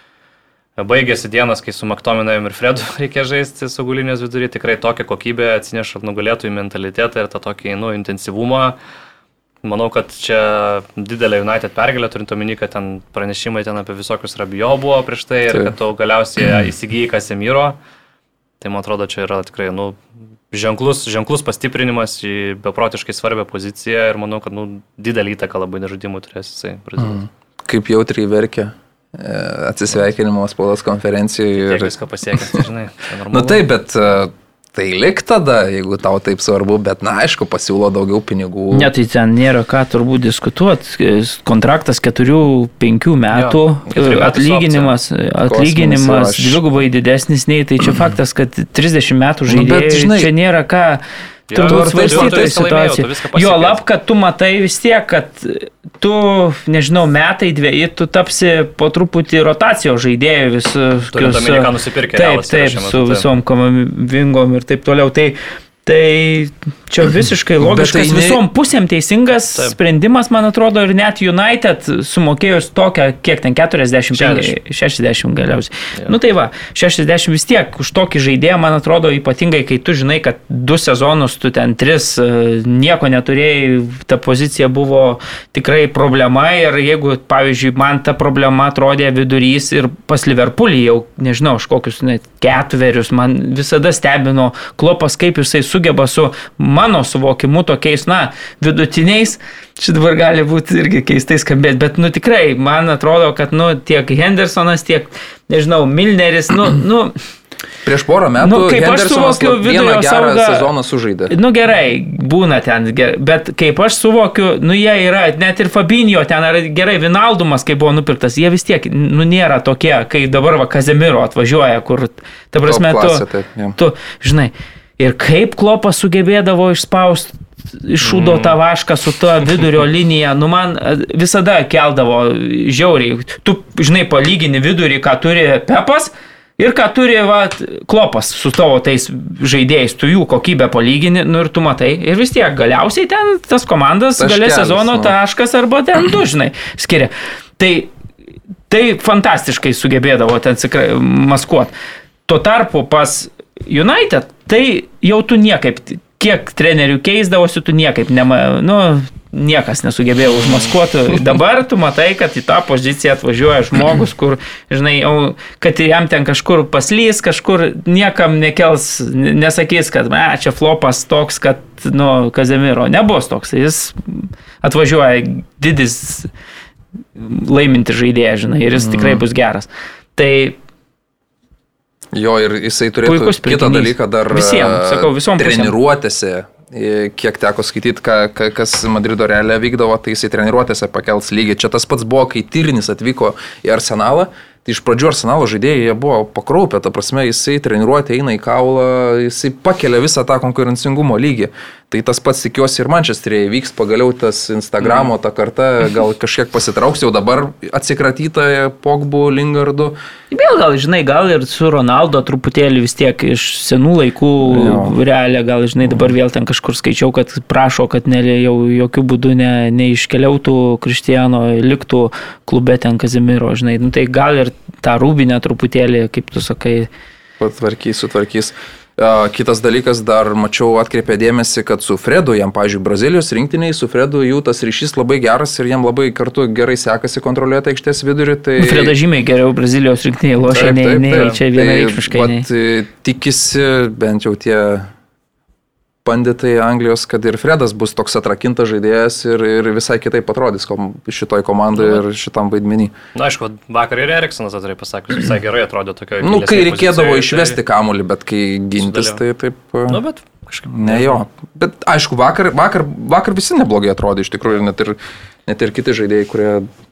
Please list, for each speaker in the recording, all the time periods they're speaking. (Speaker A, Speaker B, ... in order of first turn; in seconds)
Speaker A: 0.8-8.8, 9.6-17.8, 18.6-20.0, 20.5-27.2, 31.6-33.7, 43.3-45.0, 51.5-53.8, 61.1-63.3, 74.1-74.6, 128.0-128.6, 204.8-205.1, 240.5-241.4, 251.8-252.0, 253.2-257.6, 258.8-259.2, 259.9-261.2
Speaker B: 27.0-31.9, 33.3-38.9, 45.4-46.6, 49.5-50.3, 51.7-52.6, 67.6-68.4, 107.8-111.3, 122.6-123.8, 144.2-145.2, 178.8-179.2, 182.1-210.0, 214.4-215.0, 227.4-238.9, 240.5-244.9, 246.1-252.9, 256.2-260.0, 260.7-266.7
Speaker C: 38.7-107.2, 108.4-110.7, 111.3-147.9, 148.7-151.7, 152.3-176.3, 177.2-180.6, 183.1-185.8, 210.3-226.9, 238.6-242.5